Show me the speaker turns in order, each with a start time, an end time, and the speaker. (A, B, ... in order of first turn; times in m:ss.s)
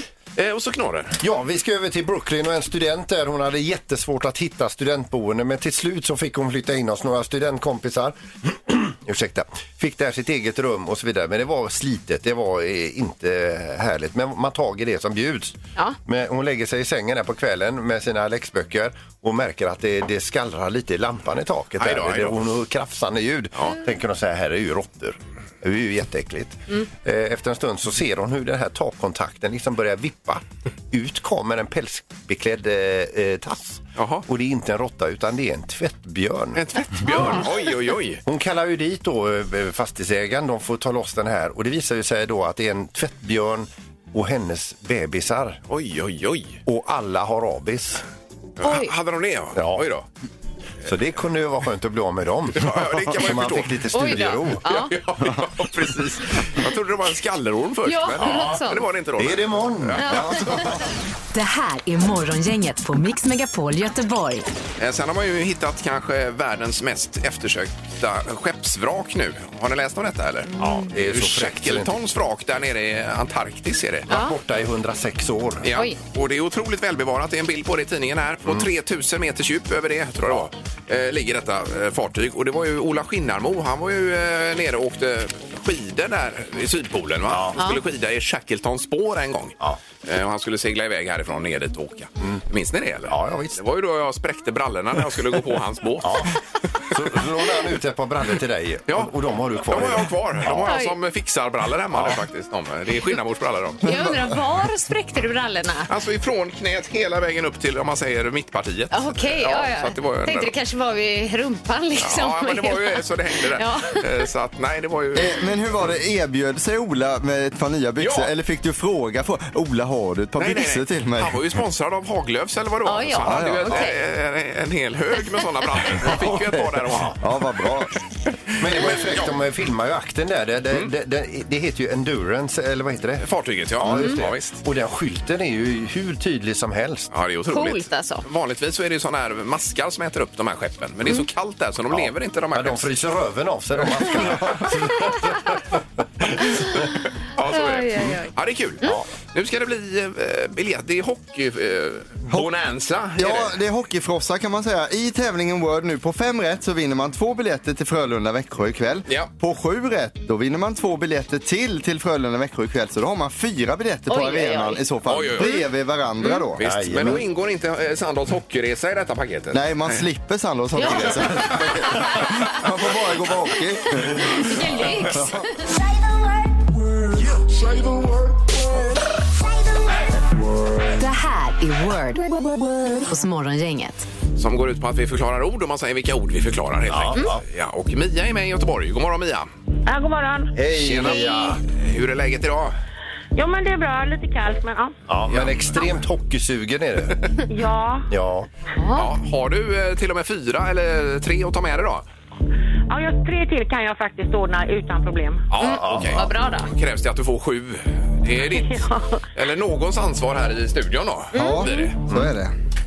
0:00.4-0:01.2 A
0:01.2-0:36.6 B
0:21.8-0:22.4 A
0:34.0-0:34.2 A
0:36.6-0:38.2 A
0:37.0-0:37.4 C
0:38.2-0:45.6 B
0:45.7-0:46.6 A
0:46.6-0:48.0 B
0:48.6-0:50.0 A
0:48.6-0:48.9 C
0:49.5-0:49.8 B
0:50.8-0:54.6 B
0:52.5-0:54.1 A
0:53.9-0:54.9 C
0:54.6-1:00.7 A
0:57.8-0:58.8 C
0:58.2-0:58.6 B
0:59.2-1:00.6 B
1:00.0-1:00.7 C
1:01.3-1:04.5 D
1:04.8-1:14.1 A
1:10.5-1:10.8 C
1:10.6-1:12.0 B
1:14.1-1:15.7 B
1:14.1-1:14.3 C
1:15.6-1:36.3 A
1:27.3-1:27.6 B
1:33.1-1:33.6 B
1:36.0-1:36.3 B
1:36.9-1:40.7 B
1:38.9-1:39.1 A
1:39.6-1:43.8 A
1:40.6-1:41.0 C
1:41.9-1:42.2 B
1:43.8-1:45.9 C
1:43.8-1:44.3 E
1:45.9-1:50.5 A
1:48.9-1:54.2 C
1:52.0-1:55.4 A
1:55.1-2:01.4 E
1:58.0-1:58.3 A
2:00.4-2:07.2 A
2:02.8-2:04.0 C
2:03.2-2:03.8 E
2:07.2-2:07.9 E
2:08.6-2:13.2 B
2:08.7-2:09.3 A
2:13.2-2:14.6 A
2:13.8-2:17.1 B
2:17.1-2:22.9 A
2:17.5-2:18.2 C
2:21.9-2:25.6 B
2:24.0-2:25.0 A
2:26.4-2:33.6 A
2:27.4-2:28.3 C
2:33.2-2:46.6 E
2:44.1-2:44.8 C
2:45.1-2:45.5 A
2:45.4-2:45.6 C
2:46.6-2:50.0 A
2:46.6-2:47.2 B
2:49.5-2:55.4 E
2:50.8-2:52.6 C
2:50.8-2:52.0 A
2:54.2-2:55.7 C
3:00.9-3:02.3 D
3:03.0-3:04.0 D
3:04.4-3:09.5 A
3:06.9-3:07.4 B
3:09.8-3:10.5 F
3:10.5-3:11.6 B
3:10.7-3:12.7 A
3:13.3-3:15.0 F
3:15.1-3:17.2 B
3:15.3-3:15.8 A
3:17.5-3:18.1 F
3:18.1-3:18.5 B
3:18.8-3:19.1 C
3:18.9-3:22.0 A
3:22.9-3:25.5 F
3:25.5-3:32.0 A
3:25.6-3:26.3 B
3:25.6-3:26.7 C
3:28.4-3:29.2 F
3:31.3-3:31.9 C
3:31.3-3:32.5 E
3:32.1-3:32.3 B